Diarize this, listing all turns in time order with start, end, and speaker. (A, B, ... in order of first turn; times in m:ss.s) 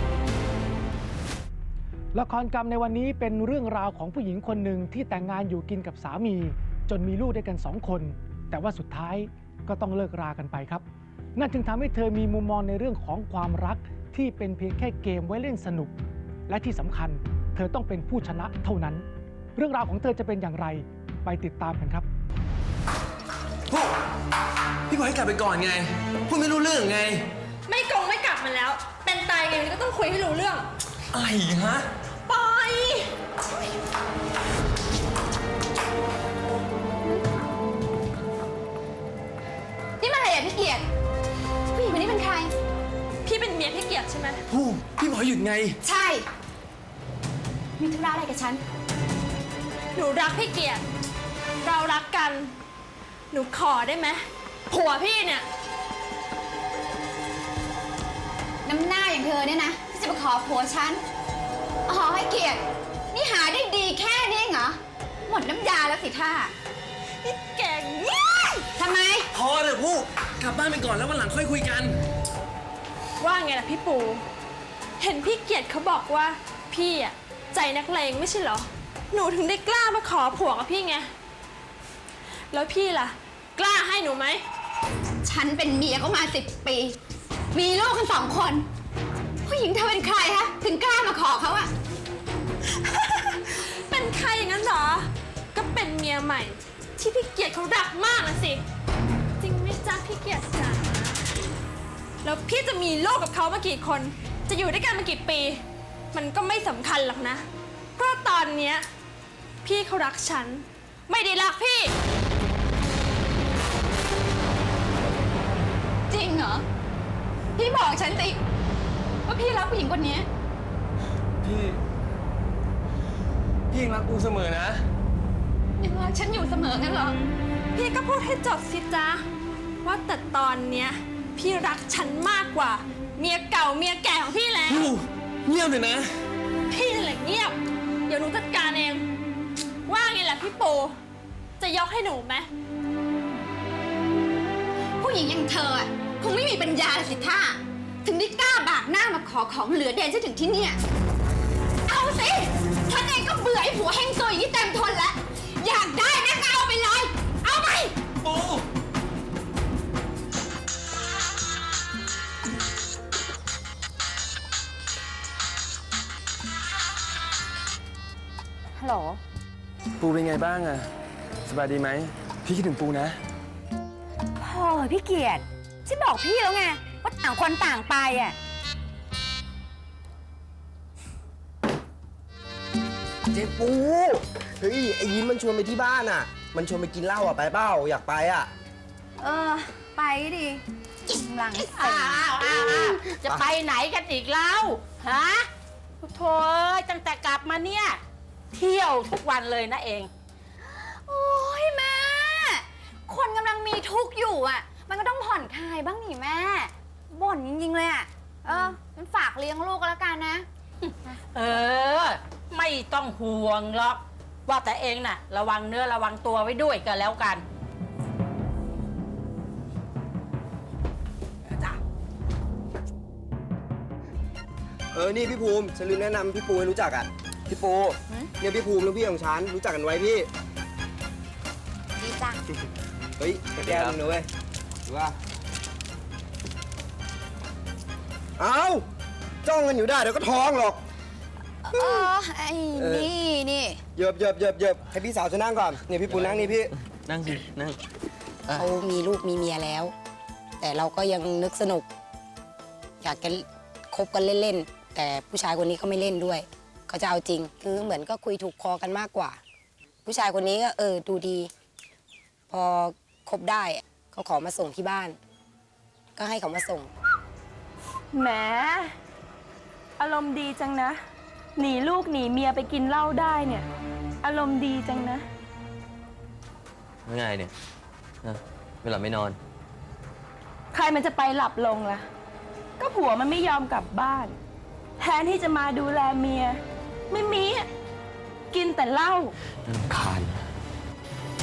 0:02.1-0:10.8 A
0:11.4-0:15.9 A
0:16.5-0:19.0 A
0:19.6-0:22.1 A
0:24.9-0:27.3 B
0:27.7-0:30.7 C
0:31.1-0:31.8 B
0:32.3-0:33.1 C
0:37.0-0:37.3 D
0:40.0-0:40.9 D
0:41.7-0:42.5 D
0:43.2-0:44.4 C
0:44.5-0:45.8 B
0:45.8-0:46.3 D
0:47.8-0:48.6 D
0:49.9-0:50.8 C
0:51.6-0:52.5 C
0:53.3-0:55.4 C
0:58.6-1:01.0 D
1:01.9-1:06.5 D
1:07.2-1:08.7 C
1:08.8-1:09.3 D
1:09.3-1:12.0 B
1:13.2-1:14.2 C
1:15.0-1:21.1 C
1:22.5-1:24.4 C
1:25.2-1:27.0 D
1:27.5-1:28.7 D
1:29.4-1:31.7 D
1:33.4-1:38.6 C
1:39.4-1:41.2 C
1:42.2-1:45.6 C
1:46.1-1:47.4 C
1:48.0-1:48.8 C
1:49.6-1:51.9 C
1:56.1-1:56.6 D
1:57.6-1:58.4 D
1:59.2-2:00.3 D
2:01.4-2:01.8 B
2:03.7-2:04.8 B
2:05.8-2:07.2 D
2:07.7-2:09.2 C
2:09.8-2:14.9 C
2:14.7-2:16.1 B
2:16.7-2:19.0 C
2:19.9-2:20.9 C
2:21.6-2:22.5 C
2:25.0-2:30.8 D
2:31.8-2:37.9 D
2:48.8-2:49.2 D
2:50.0-2:50.9 B
2:51.4-2:53.2 B
2:54.4-2:58.4 D
3:03.3-3:08.5 E
3:09.2-3:12.9 D
3:11.5-3:15.5 F
3:16.0-3:18.0 F
3:18.5-3:20.1 F
3:20.6-3:30.4 D
3:30.9-3:37.4 F
3:44.9-3:50.3 E
3:52.0-3:52.4 D
3:53.2-3:54.3 E
3:53.5-3:54.0 G
3:54.9-3:55.1 E
3:58.4-3:58.8 E
3:59.4-4:00.8 E
4:01.6-4:03.8 D
4:01.8-4:02.1 E
4:02.8-4:03.1 E
4:04.0-4:06.7 E
4:06.0-4:07.8 G
4:08.5-4:09.9 H
4:10.6-4:11.8 H
4:13.0-4:19.4 H
4:20.0-4:21.5 H
4:22.5-4:25.2 H
4:26.2-4:26.9 H
4:28.1-4:28.9 I
4:30.0-4:31.0 I
4:31.6-4:33.6 I
4:34.2-4:35.2 I
4:37.0-4:37.5 G
4:38.2-4:39.4 G
4:40.7-4:42.1 I
4:42.8-4:44.4 I
4:45.0-4:47.7 I
4:48.5-4:49.3 I
4:49.7-4:50.4 G